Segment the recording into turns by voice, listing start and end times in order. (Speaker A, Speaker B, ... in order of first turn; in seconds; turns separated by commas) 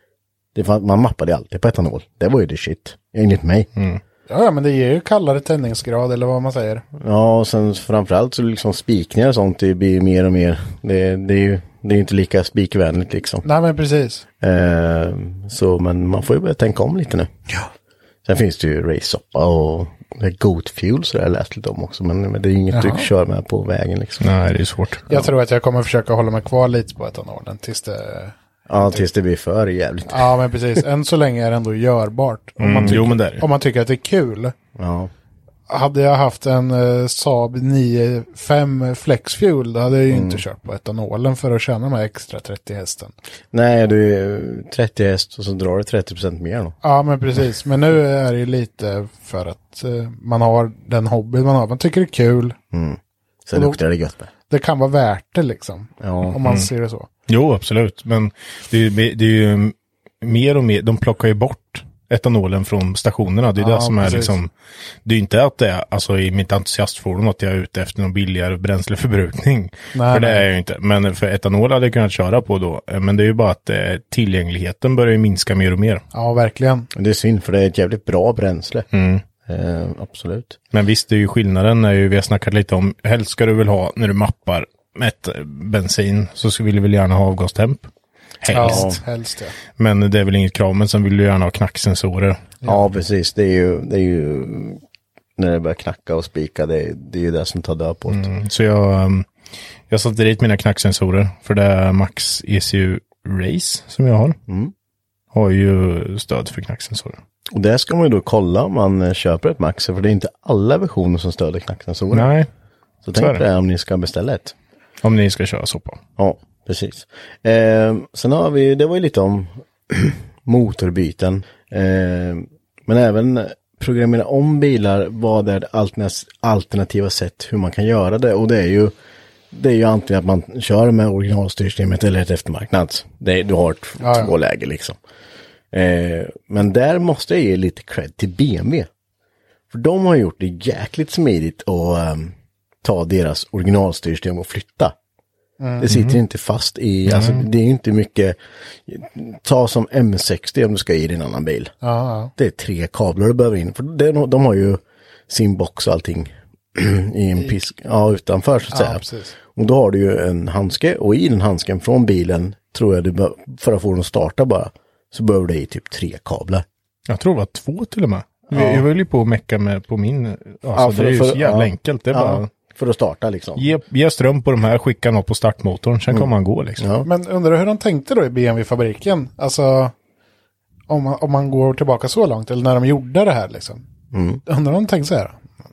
Speaker A: 0.6-3.7, Speaker B: 4.3-6.8, Speaker A: 7.0-13.4, Speaker B: 13.4-14.2, Speaker A: 14.4-17.3, Speaker A: 18.2-24.3, Speaker B: 22.7-23.1, Speaker C: 24.2-25.3, Speaker B: 25.1-29.0, Speaker A: 28.7-30.4, Speaker B: 30.1-34.5, Speaker C: 32.6-33.5, Speaker A: 34.8-35.1, Speaker B: 35.7-43.1, Speaker A: 40.1-40.4, Speaker A: 43.5-46.8, Speaker B: 46.8-52.6, Speaker A: 52.7-54.3, Speaker B: 53.5-53.8, Speaker B: 54.5-57.1, Speaker A: 56.0-56.4, Speaker C: 57.3-64.5, Speaker B: 63.6-64.4, Speaker C: 65.0-76.0, Speaker B: 69.9-70.5, Speaker B: 76.1-76.9, Speaker A: 77.0-78.9, Speaker C: 78.9-79.2, Speaker A: 79.4-80.6, Speaker C: 80.7-87.9, Speaker C: 88.4-89.0, Speaker B: 88.5-89.6, Speaker A: 88.5-89.0, Speaker C: 89.8-92.6, Speaker A: 92.7-94.8, Speaker A: 95.4-98.3, Speaker C: 98.1-99.3, Speaker C: 99.9-104.4, Speaker A: 104.5-104.7, Speaker C: 105.3-107.2, Speaker A: 107.5-112.3, Speaker C: 112.1-112.5, Speaker A: 113.0-114.5, Speaker C: 113.2-113.5, Speaker C: 115.0-116.0, Speaker A: 116.2-128.9, Speaker A: 129.5-135.0, Speaker B: 134.0-134.3, Speaker A: 135.7-138.9, Speaker A: 139.7-144.9, Speaker B: 145.6-145.9, Speaker A: 145.8-151.7, Speaker C: 145.9-146.2, Speaker C: 147.1-147.4, Speaker B: 151.8-152.3, Speaker A: 152.4-166.7, Speaker B: 158.7-159.3, Speaker C: 167.1-172.5, Speaker A: 168.5-168.8, Speaker A: 170.8-173.7, Speaker C: 173.6-176.8, Speaker A: 176.8-177.1, Speaker B: 177.0-179.9, Speaker B: 180.9-183.8, Speaker A: 184.1-184.4, Speaker B: 184.5-185.4